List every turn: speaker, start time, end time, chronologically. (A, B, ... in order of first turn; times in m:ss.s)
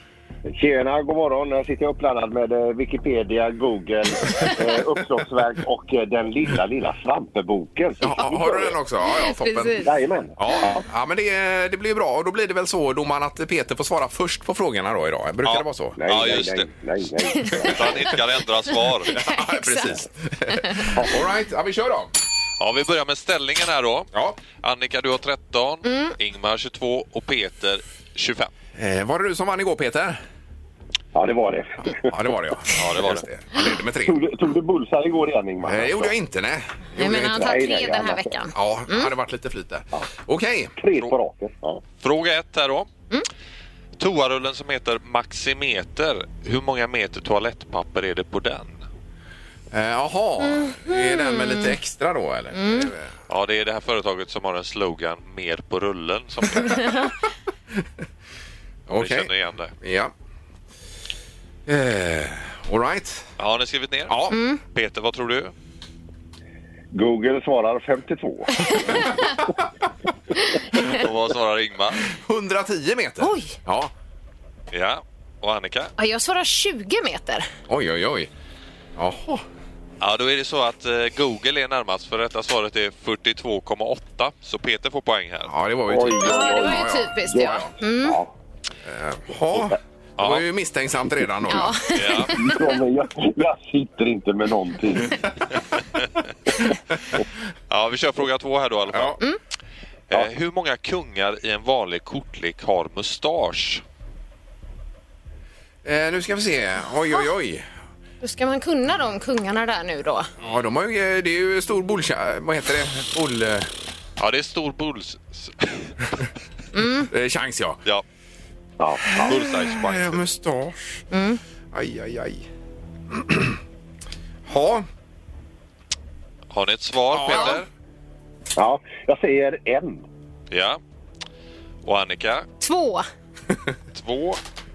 0:00.5-0:08.7 A
0:08.0-0:16.0 B
0:09.0-0:09.9 C
0:09.8-0:10.8 A
0:15.4-0:16.7 D
0:16.0-0:17.8 A
0:17.3-0:17.7 C
0:17.4-0:19.2 D
0:19.1-0:20.0 C
0:19.1-0:22.1 B
0:20.6-0:20.8 C
0:22.6-0:28.5 D
0:25.8-0:26.1 C
0:28.8-0:30.2 B
0:31.1-0:32.0 A
0:31.9-0:34.2 B
0:32.8-0:33.2 D
0:34.0-0:36.1 A
0:35.6-0:37.5 B
0:37.0-0:39.1 C
0:37.3-0:38.3 A
0:38.5-0:40.7 B
0:40.8-0:41.8 A
0:42.0-0:42.9 D
0:44.0-0:48.8 D
0:49.7-0:53.1 B
0:50.4-0:51.7 C
0:52.5-0:52.9 C
0:53.3-0:56.9 D
0:58.9-0:59.3 B
0:58.9-0:59.7 D
0:59.8-1:00.1 B
1:01.7-1:03.3 B
1:03.4-1:05.5 D
1:04.1-1:04.4 B
1:04.3-1:04.6 C
1:06.9-1:08.8 A
1:08.6-1:09.2 C
1:10.9-1:12.0 D
1:12.1-1:13.9 B
1:13.2-1:13.5 C
1:14.7-1:15.9 D
1:16.0-1:17.5 C
1:17.7-1:18.3 B
1:19.0-1:19.4 B
1:20.0-1:25.5 D
1:25.4-1:27.7 B
1:25.9-1:28.3 A
1:26.2-1:28.2 C
1:28.8-1:31.8 B
1:30.2-1:30.4 D
1:31.5-1:32.7 C
1:31.9-1:32.3 D
1:32.2-1:35.2 A
1:37.7-1:39.2 D
1:38.9-1:39.2 B
1:40.1-1:43.8 D
1:45.8-1:47.6 B
1:48.2-1:50.3 C
1:50.4-1:53.7 B
1:54.2-1:55.9 D
1:56.7-1:57.1 C
1:57.1-1:57.8 B
1:58.8-1:59.3 A
1:59.1-2:01.0 B
1:59.2-2:00.2 D
2:01.1-2:01.4 C
2:01.7-2:02.5 B
2:03.1-2:03.6 B
2:04.5-2:04.8 B
2:06.5-2:07.7 D
2:07.1-2:07.6 B
2:07.3-2:07.6 C
2:08.6-2:10.0 A
2:10.5-2:10.8 D
2:11.8-2:12.4 D
2:12.6-2:13.0 C
2:13.9-2:14.4 D